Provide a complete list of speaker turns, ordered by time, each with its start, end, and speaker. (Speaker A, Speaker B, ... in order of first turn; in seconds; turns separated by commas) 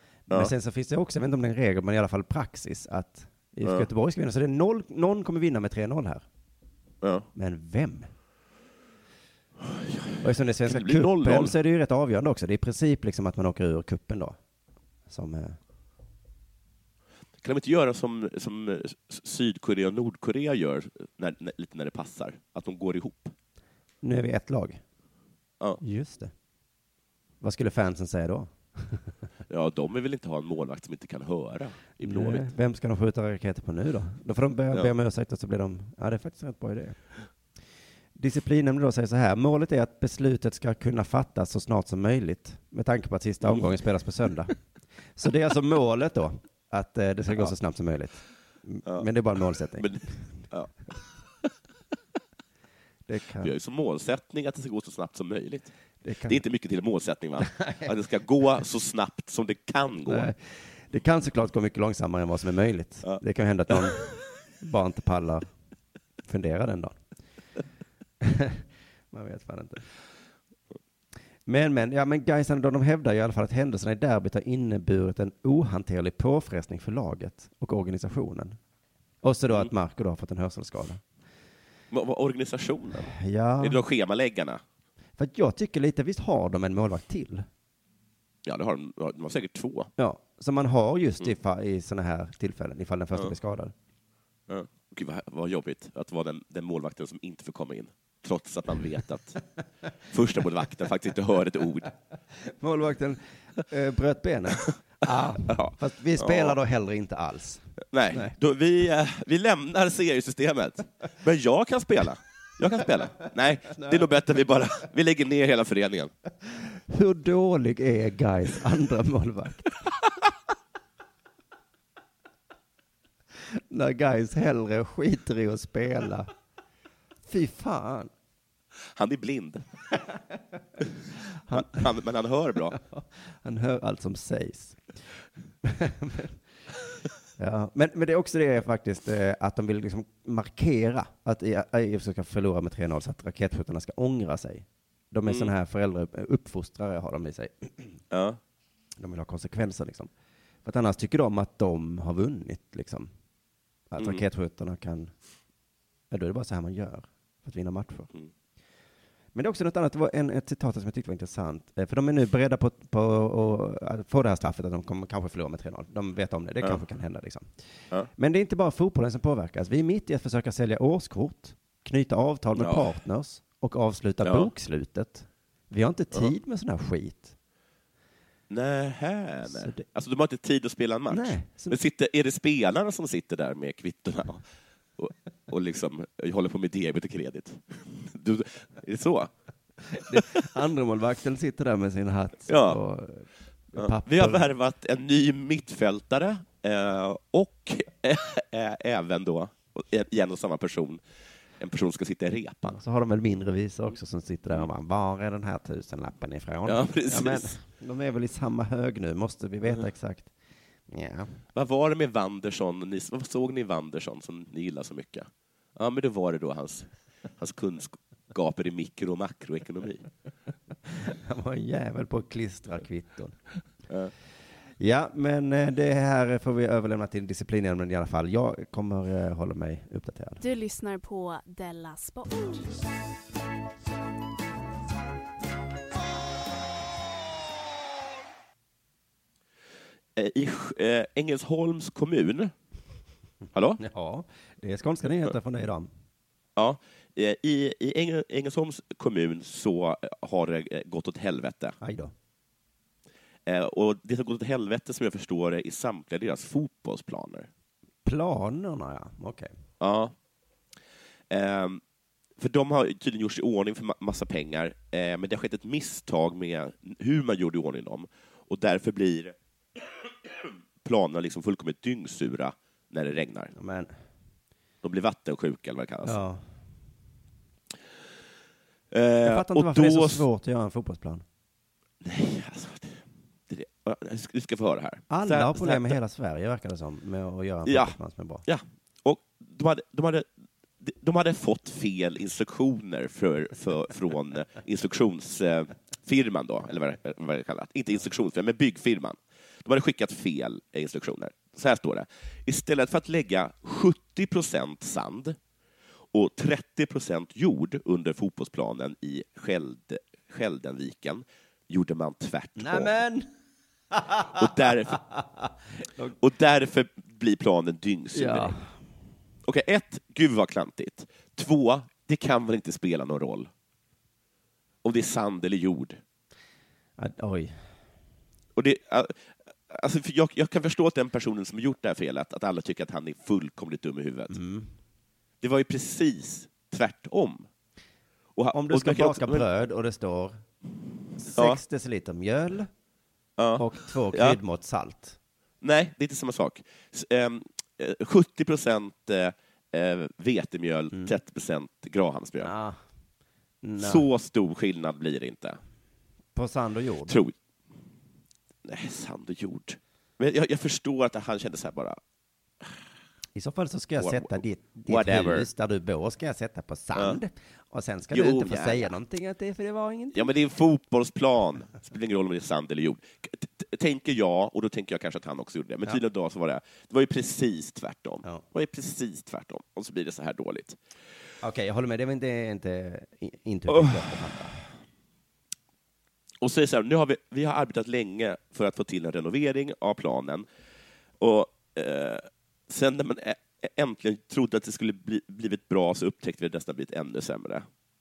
Speaker A: 0.3-6.2, Speaker A: 7.3-8.1, Speaker B: 9.7-11.5, Speaker A: 10.2-14.4, Speaker A: 15.1-15.6, Speaker B: 17.4-23.3, Speaker A: 24.0-24.8, Speaker A: 25.8-26.3, Speaker A: 27.4-29.1, Speaker B: 29.5-32.5, Speaker A: 32.0-37.0, Speaker A: 38.2-44.5, Speaker B: 43.4-43.7, Speaker A: 45.2-50.4, Speaker B: 49.8-50.7, Speaker A: 53.1-53.5, Speaker B: 53.4-55.7, Speaker A: 56.0-56.4, Speaker B: 56.3-60.3, Speaker A: 57.4-57.9, Speaker A: 60.1-64.1, Speaker A: 64.6-65.5, Speaker A: 66.2-67.0, Speaker A: 68.2-69.8, Speaker A: 71.5-78.6, Speaker A: 79.2-81.0, Speaker B: 81.9-84.6, Speaker A: 83.0-83.8, Speaker A: 85.2-87.5, Speaker B: 88.5-89.9, Speaker A: 90.0-93.7, Speaker B: 94.5-99.4, Speaker B: 100.1-101.9, Speaker A: 102.4-108.3, Speaker B: 104.7-106.6, Speaker B: 107.9-116.1, Speaker A: 113.8-114.0, Speaker A: 116.5-119.7, Speaker A: 123.4-126.3, Speaker A: 127.2-128.1, Speaker B: 129.0-129.6, Speaker A: 131.5-131.8, Speaker B: 131.5-132.8, Speaker A: 132.7-134.9, Speaker A: 135.6-136.4, Speaker A: 137.4-148.0, Speaker B: 145.3-145.5, Speaker B: 148.1-148.4, Speaker A: 149.0-150.1, Speaker A: 150.7-153.1, Speaker A: 153.9-155.1, Speaker B: 154.0-154.2, Speaker A: 156.1-158.1, Speaker A: 159.3-167.5, Speaker A: 168.1-177.3, Speaker B: 172.6-172.9, Speaker B: 174.2-174.5, Speaker B: 178.5-184.4, Speaker A: 179.4-179.8, Speaker A: 181.1-181.8, Speaker B: 185.0-189.3, Speaker A: 189.9-194.5, Speaker B: 190.1-190.4, Speaker B: 192.5-192.8, Speaker B: 193.8-201.0, Speaker B: 201.6-202.8, Speaker A: 202.7-210.3, Speaker B: 206.7-207.6, Speaker A: 210.9-211.4, Speaker B: 211.5-220.1, Speaker A: 220.9-223.4, Speaker A: 224.8-230.4, Speaker C: 230.4-232.7, Speaker B: 240.2-242.5, Speaker B: 243.5-243.8, Speaker A: 243.8-245.9, Speaker B: 246.6-251.8, Speaker A: 251.8-252.1, Speaker B: 253.5-257.5, Speaker A: 258.0-259.5, Speaker B: 259.8-260.1, Speaker B: 261.3-261.8, Speaker B: 262.4-269.4, Speaker B: 270.8-273.5, Speaker A: 273.5-273.9, Speaker B: 274.8-276.2, Speaker A: 276.0-276.6, Speaker B: 278.9-280.2, Speaker A: 279.2-281.2, Speaker B: 282.0-286.0, Speaker A: 285.1-288.4, Speaker B: 287.7-290.3, Speaker B: 290.8-305.4, Speaker B: 306.1-313.0, Speaker A: 312.6-313.3, Speaker A: 313.9-316.2, Speaker B: 314.3-315.0, Speaker B: 316.2-318.6, Speaker A: 318.1-318.8, Speaker B: 319.4-323.5, Speaker B: 324.8-326.0, Speaker A: 327.0-327.7, Speaker B: 328.6-334.4, Speaker A: 334.3-334.7, Speaker B: 335.4-337.5, Speaker B: 338.4-339.5, Speaker A: 338.5-340.4, Speaker A: 341.2-342.7, Speaker B: 343.4-344.4, Speaker A: 343.6-345.2, Speaker B: 345.6-352.5, Speaker A: 352.4-352.8, Speaker A: 353.6-354.1, Speaker B: 353.8-355.6, Speaker A: 356.4-357.2, Speaker B: 357.1-357.4, Speaker B: 358.6-362.0, Speaker A: 363.4-370.3, Speaker B: 364.0-365.5, Speaker B: 366.9-367.2, Speaker B: 368.1-368.9, Speaker B: 370.1-380.8, Speaker A: 381.4-384.5, Speaker B: 383.7-384.0, Speaker B: 386.4-390.5, Speaker B: 391.2-397.7